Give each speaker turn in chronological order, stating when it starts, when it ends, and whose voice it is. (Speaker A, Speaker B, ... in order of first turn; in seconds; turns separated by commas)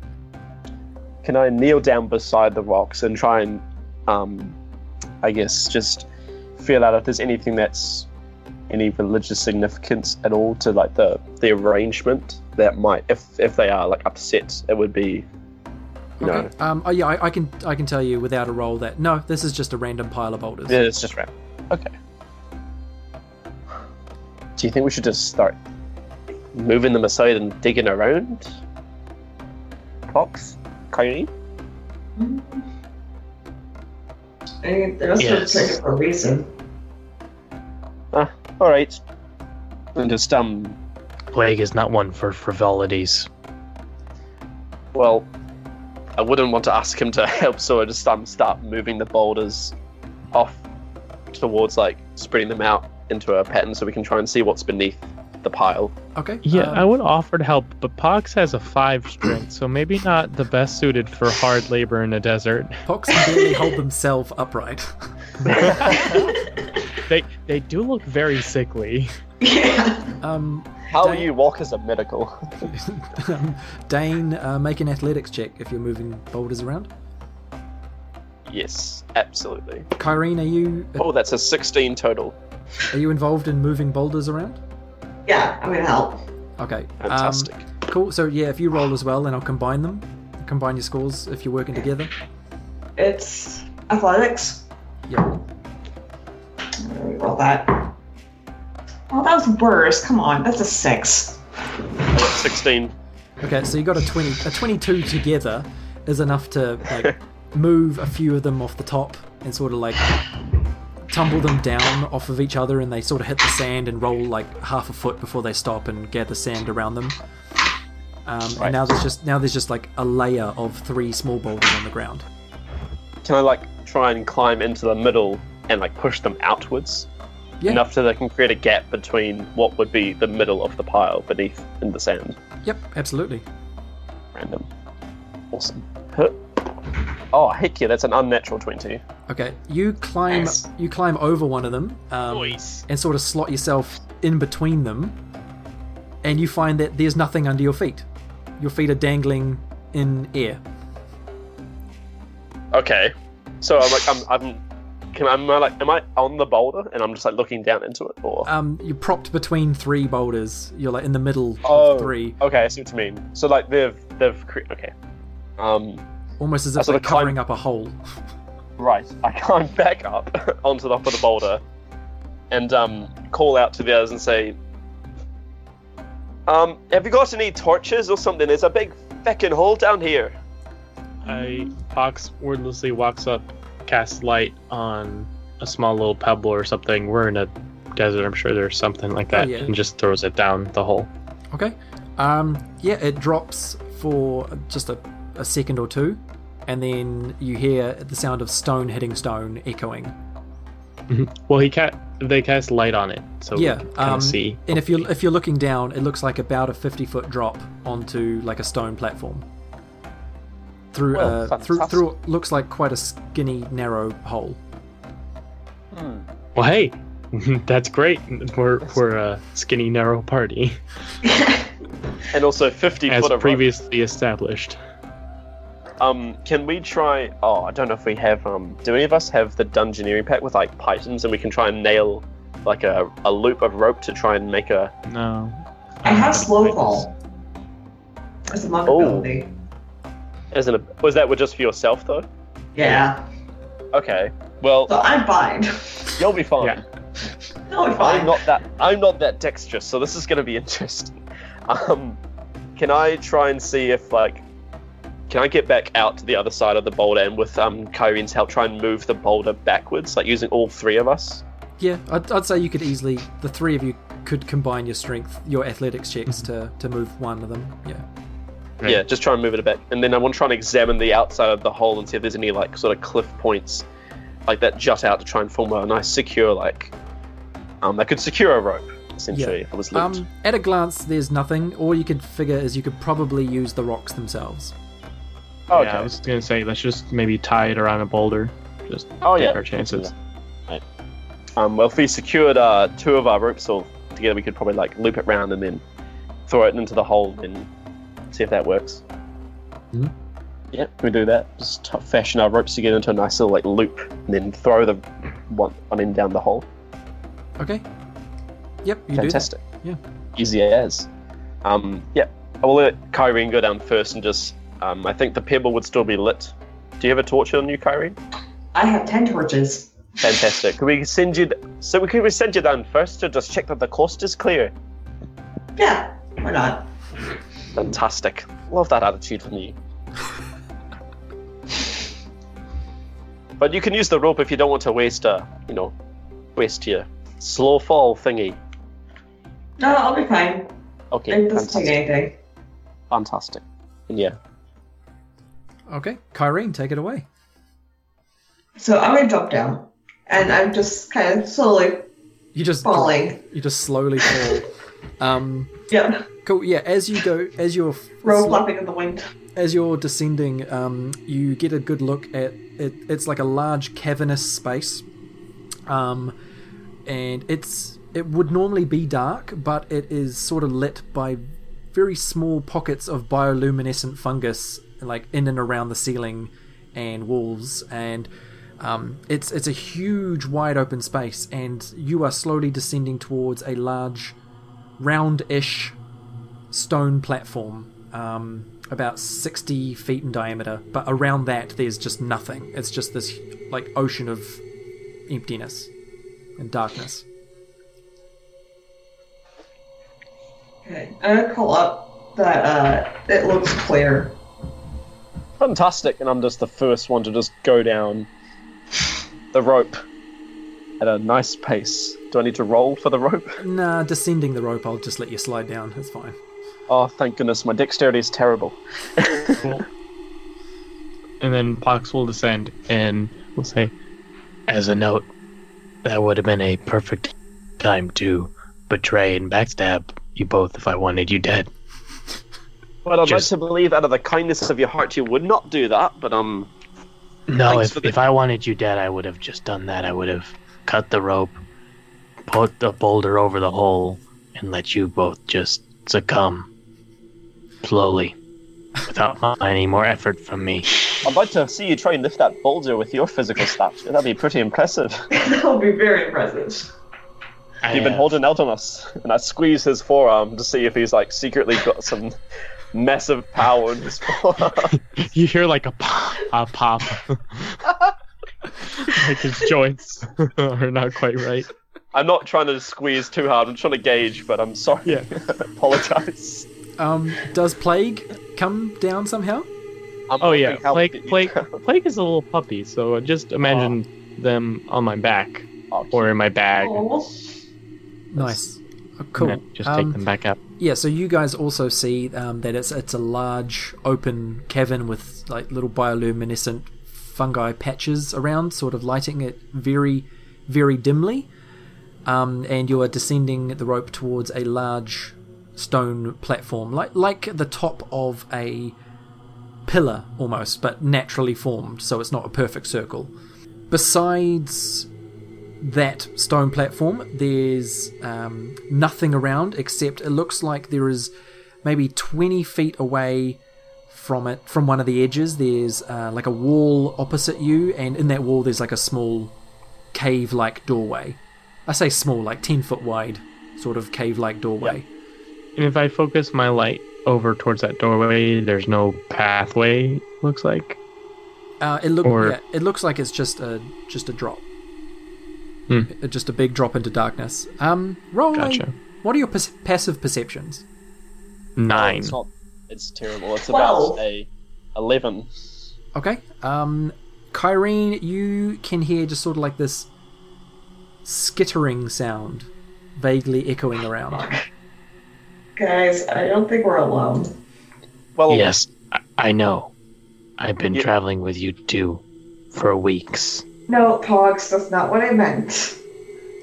Speaker A: 1.2-4.6, Speaker A: 5.2-8.1, Speaker A: 8.7-15.3, Speaker B: 16.2-20.9, Speaker A: 16.2-16.5, Speaker A: 20.7-21.9, Speaker A: 24.6-25.6, Speaker A: 26.5-28.5, Speaker A: 30.1-31.3, Speaker C: 32.2-32.6, Speaker C: 34.6-36.5, Speaker D: 35.2-35.8, Speaker A: 38.1-39.0, Speaker A: 40.0-40.8, Speaker D: 41.3-43.3, Speaker A: 44.9-45.3, Speaker A: 46.2-49.8, Speaker A: 50.3-50.6, Speaker A: 51.3-56.0, Speaker B: 56.2-56.9, Speaker E: 56.5-62.8, Speaker B: 62.9-64.9, Speaker C: 63.3-63.7, Speaker E: 65.4-66.3, Speaker A: 65.5-66.3, Speaker C: 66.1-66.5, Speaker E: 67.0-69.1, Speaker C: 69.4-70.2, Speaker B: 70.2-71.3, Speaker A: 70.9-72.7, Speaker B: 72.7-76.9, Speaker A: 78.5-79.9, Speaker B: 80.0-81.1, Speaker A: 81.0-82.4, Speaker B: 82.9-84.6, Speaker C: 85.3-86.2, Speaker B: 86.6-92.1, Speaker A: 87.0-87.7, Speaker C: 93.0-94.7, Speaker B: 95.1-95.3, Speaker C: 96.8-97.9, Speaker C: 99.1-101.4, Speaker A: 102.1-103.0, Speaker B: 103.4-110.1, Speaker B: 111.1-117.2, Speaker B: 118.3-122.3, Speaker A: 118.6-118.9, Speaker A: 123.2-127.1, Speaker A: 127.7-132.4, Speaker B: 132.6-133.4, Speaker A: 134.3-134.7, Speaker A: 135.5-136.4, Speaker A: 137.3-139.0, Speaker B: 139.3-145.2, Speaker A: 142.3-142.8, Speaker B: 146.2-148.1, Speaker B: 148.6-150.6, Speaker A: 152.7-158.5, Speaker B: 158.4-162.4, Speaker A: 161.6-164.9, Speaker A: 165.6-166.0, Speaker B: 166.4-168.0, Speaker A: 166.8-167.4, Speaker A: 168.8-171.6, Speaker A: 172.5-174.6, Speaker A: 176.5-180.4, Speaker E: 181.2-191.1, Speaker B: 189.3-189.7, Speaker B: 191.5-200.2, Speaker E: 201.1-205.1, Speaker B: 203.5-209.4, Speaker B: 210.9-214.6, Speaker A: 211.1-212.1, Speaker A: 215.9-216.2, Speaker E: 216.6-220.8, Speaker C: 221.2-221.7, Speaker A: 222.3-223.7, Speaker E: 223.1-224.8, Speaker A: 226.0-234.9, Speaker E: 235.1-237.1, Speaker C: 236.0-237.1, Speaker C: 238.5-239.5, Speaker A: 238.9-239.3, Speaker A: 240.5-242.3, Speaker C: 242.8-243.2, Speaker A: 243.9-244.9, Speaker C: 244.9-246.2, Speaker A: 246.1-246.8, Speaker C: 247.7-248.4, Speaker A: 247.9-252.2, Speaker A: 252.8-254.4, Speaker A: 255.3-261.4, Speaker B: 261.8-268.1, Speaker A: 268.8-273.9, Speaker A: 274.5-276.9, Speaker A: 277.8-280.2, Speaker B: 279.3-284.7, Speaker A: 285.7-286.1, Speaker E: 285.7-290.1, Speaker A: 289.2-290.1, Speaker A: 291.6-295.8, Speaker A: 296.5-297.7, Speaker A: 298.3-299.0, Speaker A: 300.7-306.7, Speaker B: 307.6-307.9, Speaker B: 308.8-310.0, Speaker A: 309.1-309.6, Speaker A: 310.4-311.1, Speaker A: 311.6-318.2, Speaker C: 318.7-319.9, Speaker A: 320.2-324.7, Speaker C: 325.8-326.9, Speaker A: 327.8-329.8, Speaker A: 333.6-335.9, Speaker A: 336.6-338.6, Speaker C: 339.8-340.7, Speaker A: 341.1-342.0, Speaker C: 341.3-342.4, Speaker A: 343.1-344.4, Speaker B: 345.9-347.3, Speaker C: 348.8-352.1, Speaker B: 352.5-355.7, Speaker C: 352.8-353.4, Speaker C: 355.9-356.3, Speaker B: 356.4-358.6, Speaker C: 358.2-359.2, Speaker B: 359.6-365.1, Speaker B: 365.9-366.4, Speaker B: 367.1-371.4, Speaker B: 371.9-378.3, Speaker B: 378.8-384.4, Speaker B: 385.0-386.0, Speaker B: 386.7-394.6, Speaker B: 395.3-395.9, Speaker B: 396.6-397.3, Speaker C: 400.9-404.4, Speaker A: 405.6-408.3, Speaker A: 409.5-410.0, Speaker A: 411.0-413.6, Speaker B: 413.6-416.4, Speaker A: 416.9-419.8, Speaker E: 421.4-423.9, Speaker D: 424.7-425.3, Speaker D: 426.0-431.7, Speaker A: 433.1-436.7, Speaker D: 437.5-441.6, Speaker A: 437.6-438.1, Speaker D: 442.5-446.7, Speaker D: 447.8-448.4, Speaker D: 449.1-450.9, Speaker A: 451.2-455.1, Speaker C: 455.3-456.9, Speaker D: 457.9-458.2, Speaker A: 457.9-462.4, Speaker A: 462.9-464.9, Speaker E: 465.1-467.9, Speaker E: 468.9-471.7, Speaker A: 472.1-476.7, Speaker B: 477.0-479.7, Speaker A: 480.3-481.8, Speaker E: 480.4-487.0, Speaker A: 483.7-483.9, Speaker A: 485.9-486.3, Speaker C: 486.8-487.3, Speaker B: 488.3-490.2, Speaker E: 489.4-490.6, Speaker B: 490.8-501.5, Speaker B: 502.3-509.0, Speaker B: 509.9-513.3, Speaker B: 513.9-515.1, Speaker B: 515.8-521.3, Speaker B: 521.8-529.5, Speaker B: 530.1-535.1, Speaker E: 535.8-541.0, Speaker B: 541.8-544.6, Speaker E: 542.2-542.6, Speaker B: 546.1-550.9, Speaker E: 548.5-548.9, Speaker E: 551.8-552.4, Speaker A: 551.9-555.5, Speaker C: 553.7-554.2, Speaker B: 556.1-560.1, Speaker B: 561.2-564.6, Speaker C: 565.8-567.5, Speaker A: 568.4-568.7, Speaker D: 568.5-569.9, Speaker D: 570.6-573.6, Speaker C: 573.9-576.0